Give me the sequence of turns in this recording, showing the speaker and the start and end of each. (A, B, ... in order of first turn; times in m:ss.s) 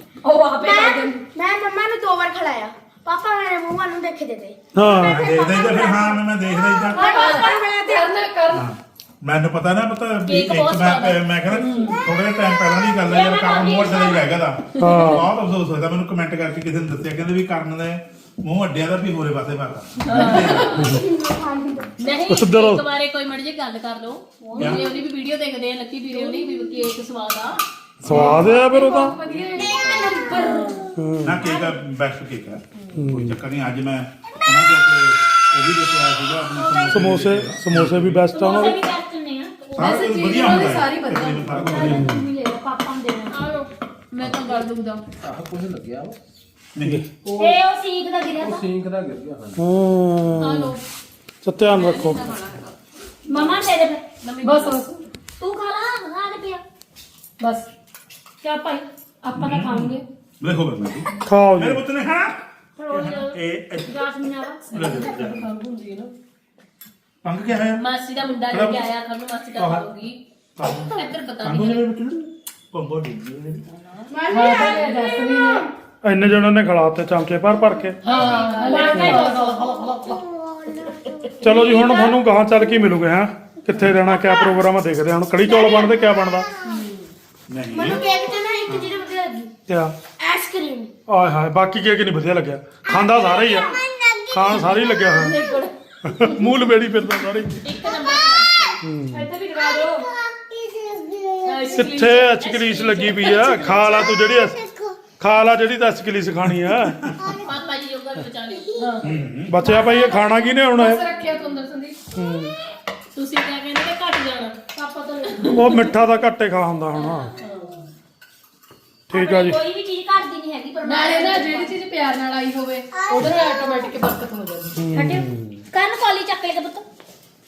0:00.2-0:01.2 A
0:00.6-0:08.1 B
0:04.7-0:05.2 C
0:05.0-0:07.2 D
0:07.0-0:07.9 A
0:07.0-0:08.7 E
0:08.5-0:20.8 D
0:10.3-0:11.2 F
0:11.6-0:12.0 E
0:13.0-0:14.3 A
0:14.8-0:15.3 C
0:20.0-0:21.0 F
0:20.2-0:22.1 B
0:20.2-0:21.0 C
0:22.0-0:27.6 F
0:22.3-0:22.8 C
0:24.5-0:25.0 A
0:26.2-0:26.8 B
0:28.0-0:29.2 C
0:28.1-0:30.6 E
0:28.1-0:28.5 D
0:29.3-0:31.0 B
0:29.6-0:30.8 A
0:31.0-0:31.4 C
0:31.2-0:38.3 D
0:33.0-0:33.4 C
0:36.6-0:37.2 F
0:36.9-0:38.8 C
0:38.3-0:40.2 A
0:39.8-0:42.1 D
0:39.8-0:41.8 E
0:41.5-0:42.0 G
0:41.7-0:43.5 A
0:41.8-0:42.3 C
0:43.3-0:45.0 F
0:45.2-0:46.2 G
0:46.8-0:47.0 D
0:47.2-0:47.6 G
0:47.4-0:48.6 A
0:48.3-0:49.6 G
0:49.6-0:50.8 C
0:50.4-0:50.8 F
0:51.4-0:52.3 C
0:51.7-0:52.8 F
0:53.3-0:54.0 A
0:54.2-0:54.8 F
0:54.4-0:55.0 E
0:55.4-0:56.6 A
0:57.4-0:57.7 E
0:58.4-1:00.0 A
0:59.4-1:04.1 D
1:01.2-1:01.8 C
1:02.8-1:04.7 A
1:04.7-1:06.1 E
1:04.7-1:05.5 D
1:07.2-1:07.8 D
1:07.8-1:10.2 F
1:08.5-1:08.9 D
1:09.6-1:09.8 D
1:10.6-1:13.6 D
1:10.9-1:11.9 F
1:14.1-1:15.7 B
1:14.3-1:15.7 E
1:16.0-1:18.0 C
1:18.0-1:20.2 E
1:18.1-1:19.4 F
1:18.1-1:19.5 A
1:18.2-1:22.0 B
1:18.9-1:19.2 C
1:21.4-1:26.5 C
1:23.7-1:24.7 B
1:25.3-1:26.9 B
1:27.5-1:28.0 D
1:27.7-1:29.5 B
1:28.7-1:28.9 D
1:29.7-1:30.0 C
1:30.2-1:30.9 B
1:31.1-1:33.7 C
1:32.8-1:35.3 B
1:34.3-1:35.4 C
1:35.1-1:35.7 A
1:36.0-1:37.7 C
1:37.6-1:38.8 F
1:37.8-1:38.7 B
1:38.8-1:39.3 C
1:39.1-1:40.1 A
1:39.4-1:42.0 B
1:41.4-1:43.7 F
1:41.7-1:44.5 C
1:43.3-1:45.1 B
1:45.2-1:47.1 C
1:46.7-1:47.1 D
1:47.2-1:47.8 B
1:47.3-1:49.1 F
1:49.0-1:49.6 D
1:49.5-1:51.0 C
1:49.6-1:52.0 E
1:52.2-1:52.5 C
1:53.2-1:54.6 F
1:54.8-1:55.9 A
1:55.4-1:57.3 C
1:59.1-1:59.6 C
1:59.1-2:01.8 A
2:00.8-2:04.8 E
2:02.9-2:04.0 B
2:04.8-2:05.6 C
2:04.9-2:06.9 A